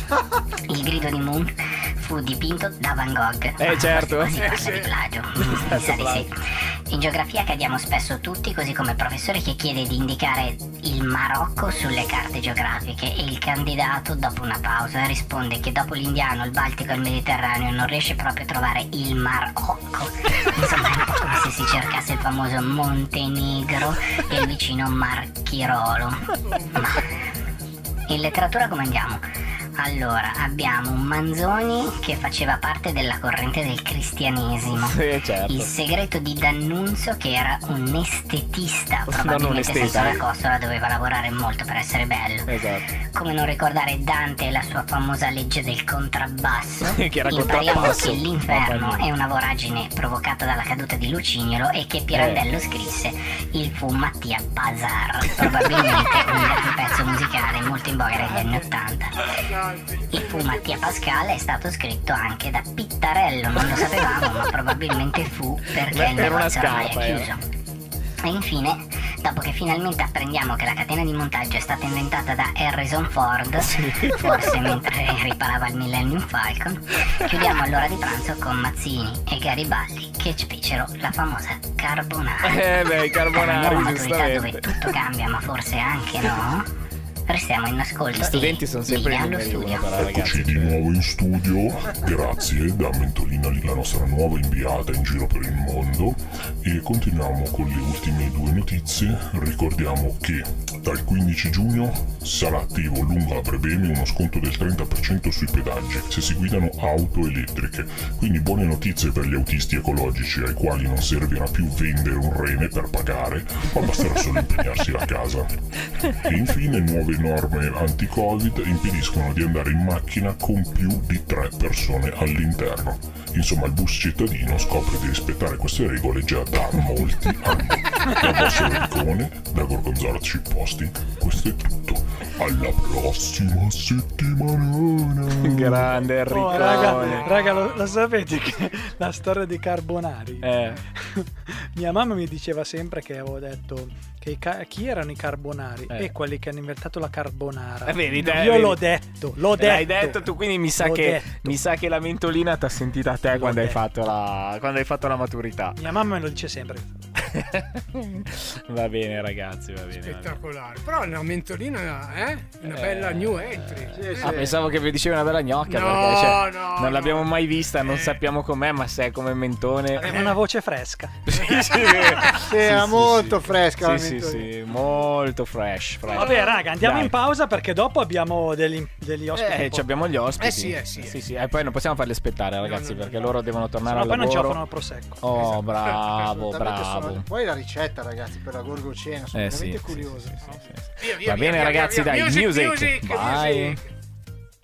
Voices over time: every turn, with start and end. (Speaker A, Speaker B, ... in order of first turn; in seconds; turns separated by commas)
Speaker A: 0.7-6.3, Speaker B: 3.6-4.4, Speaker C: 4.3-4.9, Speaker B: 5.4-6.2, Speaker A: 6.9-27.0, Speaker C: 26.7-27.1, Speaker A: 28.1-29.2, Speaker A: 29.8-42.5, Speaker B: 34.7-35.7, Speaker B: 39.1-40.2, Speaker B: 42.5-42.9, Speaker A: 43.1-59.3, Speaker B: 46.8-49.1, Speaker B: 52.1-52.4, Speaker C: 59.3-60.9, Speaker A: 60.1-67.4, Speaker B: 65.8-67.3, Speaker A: 68.2-82.8, Speaker B: 73.7-74.7, Speaker B: 82.4-84.7, Speaker A: 83.3-86.7, Speaker A: 87.3-89.9, Speaker B: 88.2-90.8, Speaker D: 90.0-115.5, Speaker D: 116.2-136.0, Speaker B: 135.3-137.3, Speaker E: 136.3-151.6, Speaker C: 136.5-138.1, Speaker B: 140.4-140.8, Speaker B: 147.8-148.8, Speaker B: 149.5-155.8, Speaker E: 153.3-153.8, Speaker E: 155.8-156.9, Speaker B: 157.3-160.4, Speaker C: 160.0-164.5, Speaker B: 162.6-170.3, Speaker F: 163.9-164.6, Speaker C: 165.7-168.2, Speaker E: 169.9-171.2, Speaker B: 171.3-177.2, Speaker C: 171.5-172.2, Speaker F: 172.3-174.5, Speaker C: 176.1-176.7, Speaker E: 176.2-180.1, Speaker B: 179.4-184.6, Speaker C: 180.3-181.3, Speaker C: 182.6-183.4, Speaker E: 183.8-185.5, Speaker B: 185.2-187.3, Speaker F: 185.4-190.3, Speaker C: 185.8-186.3, Speaker B: 189.3-193.8, Speaker C: 190.4-193.9